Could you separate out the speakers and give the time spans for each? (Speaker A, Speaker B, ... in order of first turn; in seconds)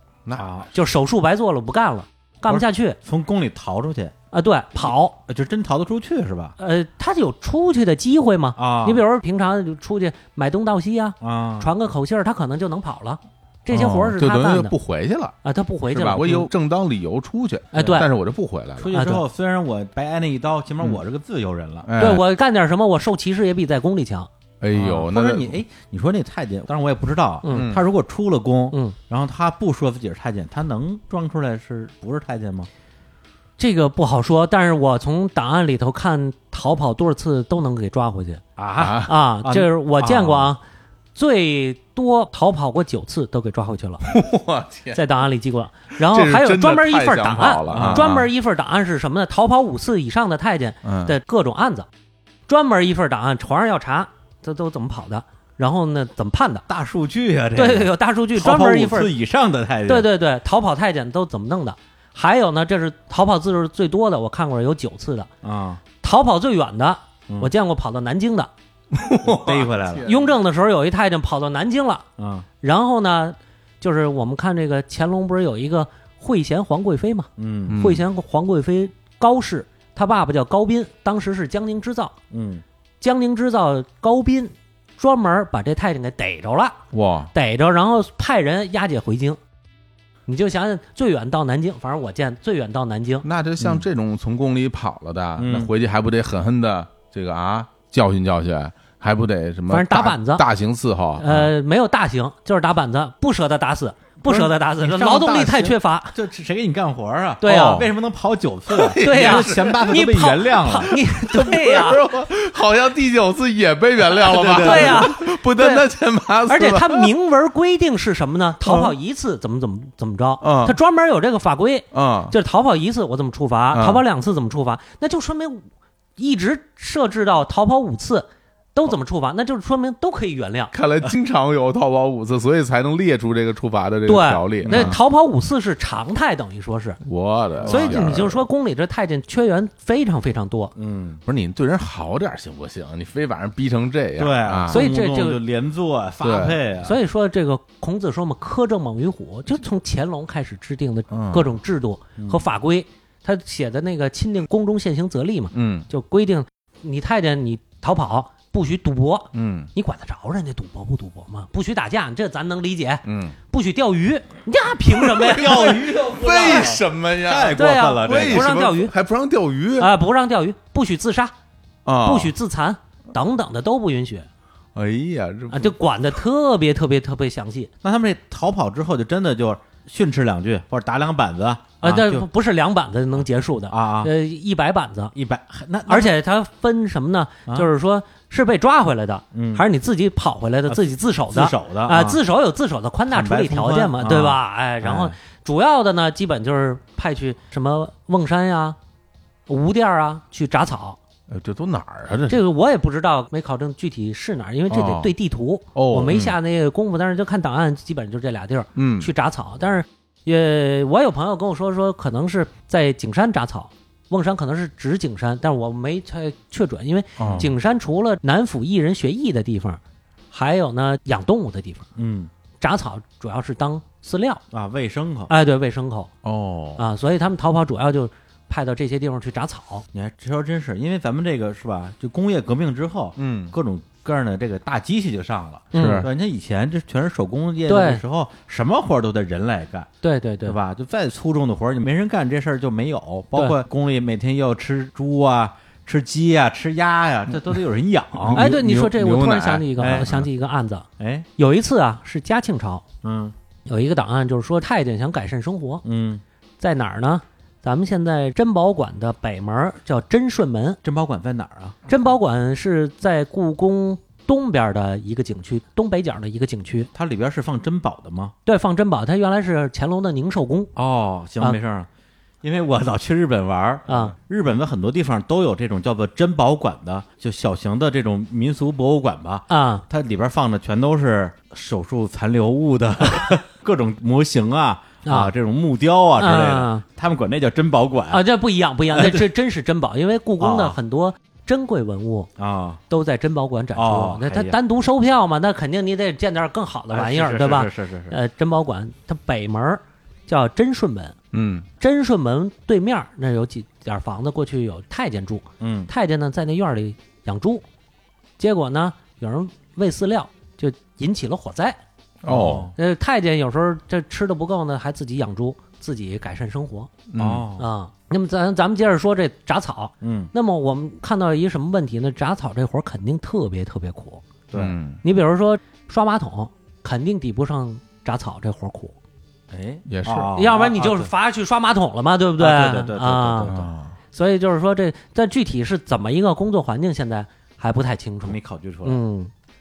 Speaker A: 0.2-0.6, 13.7-15.4, 15.9-19.0, 21.8-22.2, 24.6-25.6, 27.5-27.8, 38.8-39.1, 44.0-45.0, 46.0-48.3, 50.8-51.1, 68.9-70.3, 77.7-78.0, 86.9-87.3, 93.2-101.5, 107.4-107.9, 108.7-109.9, 110.9-117.1, 118.6-118.9, 120.4-120.8, 121.9-122.3, 123.7-124.0, 130.7-135.0, 137.1-138.4, 141.2-144.8, 146.2-146.6, 151.1-151.5, 155.5-155.9, 159.3-159.7, 163.1-163.4, 164.9-169.9, 171.9-172.3, 174.7-175.8, 201.3-202.4, 204.7-205.1, 205.7-206.4, 208.8-209.1, 217.2-217.5, 226.2-226.8, 233.2-233.6, 235.7-236.1, 248.2-250.3, 301.3-301.7, 312.2-312.7, 317.1-317.5, 324.6-325.0, 329.9-330.3, 333.5-333.9
Speaker B: 0.4-0.7, 2.5-4.1, 5.2-6.5, 8.6-9.0, 11.2-11.7, 18.8-21.9, 24.7-32.7, 38.6-40.5, 47.7-48.1, 56.7-60.1, 65.4-65.8, 69.2-70.1, 72.2-72.5, 77.4-77.8, 82.3-82.6, 95.4-95.7, 104.2-111.0, 114.1-115.1, 134.7-135.0, 137.6-138.1, 140.8-141.2, 144.2-147.0, 152.2-152.4, 165.1-168.6, 177.8-182.3, 183.7-184.1, 185.1-186.2, 189.3-189.7, 190.7-192.2, 193.1-195.1, 217.2-217.5, 222.0-222.3, 224.5-225.3, 229.9-239.9, 240.4-248.5, 249.8-250.1, 251.0-251.3, 253.0-253.3, 255.8-256.2, 260.8-261.8, 266.9-268.3, 270.8-271.9, 272.4-288.2, 288.9-289.2, 290.4-290.8, 292.4-292.8, 293.7-294.6, 296.9-298.1, 305.6-305.9, 312.2-312.7, 317.2-317.7, 320.0-320.3, 324.5-324.8, 329.5-331.1, 332.4-333.7, 338.2-339.0
Speaker C: 0.7-3.0, 4.3-5.2, 6.6-14.7, 15.4-16.5, 17.7-18.1, 18.9-19.2, 22.0-24.3, 27.4-27.7, 33.6-38.4, 38.9-40.6, 41.1-44.0, 44.9-51.9, 52.5-56.6, 57.5-59.1, 59.9-65.3, 66.0-68.5, 70.0-72.0, 72.6-82.1, 83.0-86.8, 87.3-89.4, 90.3-93.2, 99.7-100.5, 101.2-106.1, 107.4-107.8, 109.0-112.1, 114.5-115.9, 116.5-130.7, 134.1-137.0, 137.7-140.7, 144.7-145.4, 146.8-166.0, 167.6-168.9, 169.8-171.3, 172.0-174.3, 175.5-177.7, 181.8-185.1, 185.9-198.8, 199.5-201.0, 202.3-221.9, 222.6-224.4, 225.3-226.1, 226.8-229.8, 235.7-236.1, 237.7-238.0, 240.0-240.6, 248.3-252.9, 253.7-255.8, 256.6-260.8, 261.9-266.9, 268.4-270.7, 273.9-274.1, 279.5-279.8, 285.1-285.3, 286.2-286.8, 288.1-292.3, 292.9-301.1, 301.8-307.6, 308.4-311.8, 312.8-316.9, 317.6-324.2, 325.0-328.9, 330.3-333.5, 334.1-339.3